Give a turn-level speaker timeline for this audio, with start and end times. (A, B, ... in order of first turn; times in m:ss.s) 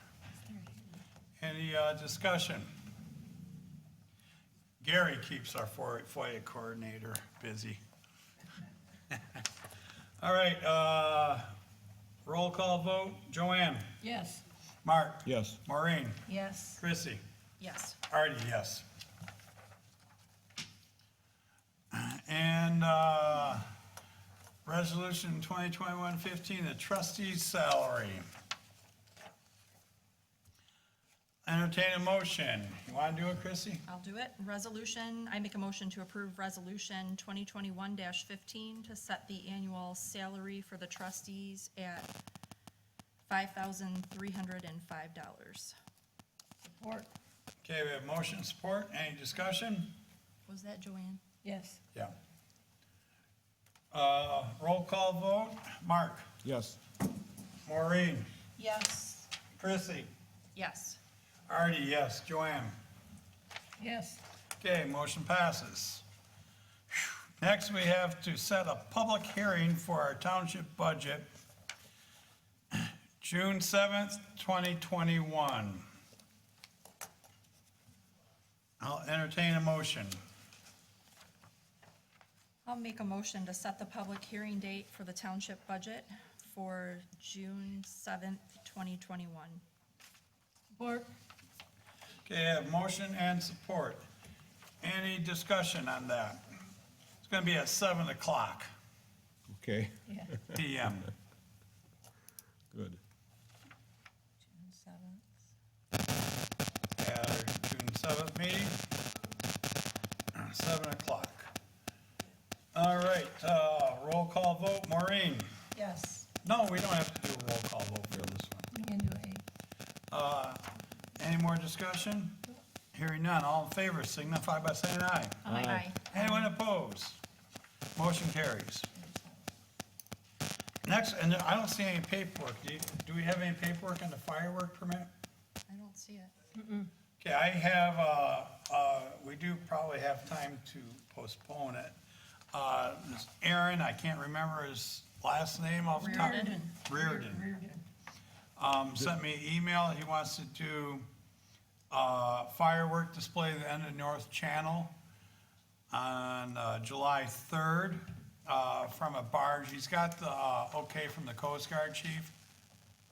0:00.5-0:00.8 A
0:01.4-0:02.7 B
0:04.8-0:07.8 B
0:10.2-0:11.5 B
0:12.2-0:13.9 B
0:14.0-0:14.4 A
0:14.8-0:17.2 B
0:15.3-0:15.6 C
0:16.3-0:16.8 A
0:17.6-0:18.0 D
0:18.1-0:18.8 B
0:21.9-0:23.7 B
0:24.6-0:28.2 B
0:31.4-0:33.8 B
0:33.9-0:42.1 D
0:43.3-0:45.7 D
0:46.6-0:47.1 A
0:47.6-0:49.9 B
0:50.5-0:51.2 D
0:51.4-0:51.8 A
0:53.9-0:56.3 B
0:56.4-0:56.8 C
0:57.7-0:58.3 B
0:58.6-0:59.3 A
0:59.6-1:00.1 B
1:00.6-1:01.0 D
1:01.5-1:02.7 B
1:03.8-1:04.2 A
1:04.6-1:06.0 B
1:06.9-1:11.3 B
1:12.7-1:15.8 B
1:18.8-1:20.2 B
1:22.6-1:29.6 D
1:30.7-1:31.1 A
1:32.2-1:34.0 B
1:34.8-1:36.4 B
1:37.2-1:38.7 B
1:39.5-1:40.6 C
1:40.1-1:40.3 A
1:40.5-1:41.1 B
1:42.7-1:43.0 C
1:44.4-1:45.3 A
1:47.0-1:48.8 B
1:50.3-1:51.5 B
1:52.7-1:55.5 B
1:55.7-1:56.3 A
1:56.4-1:58.7 B
1:58.7-1:59.4 A
2:00.1-2:05.5 B
2:05.4-2:06.5 D
2:05.4-2:05.9 C
2:06.1-2:07.2 B
2:08.0-2:08.9 B
2:09.0-2:09.3 A
2:10.8-2:15.1 B
2:15.7-2:16.3 D
2:16.6-2:16.9 A
2:17.2-2:21.9 B
2:22.5-2:27.5 B
2:26.0-2:26.7 D
2:26.0-2:27.8 A
2:28.6-2:31.1 B
2:31.9-2:34.9 B
2:35.9-2:42.3 B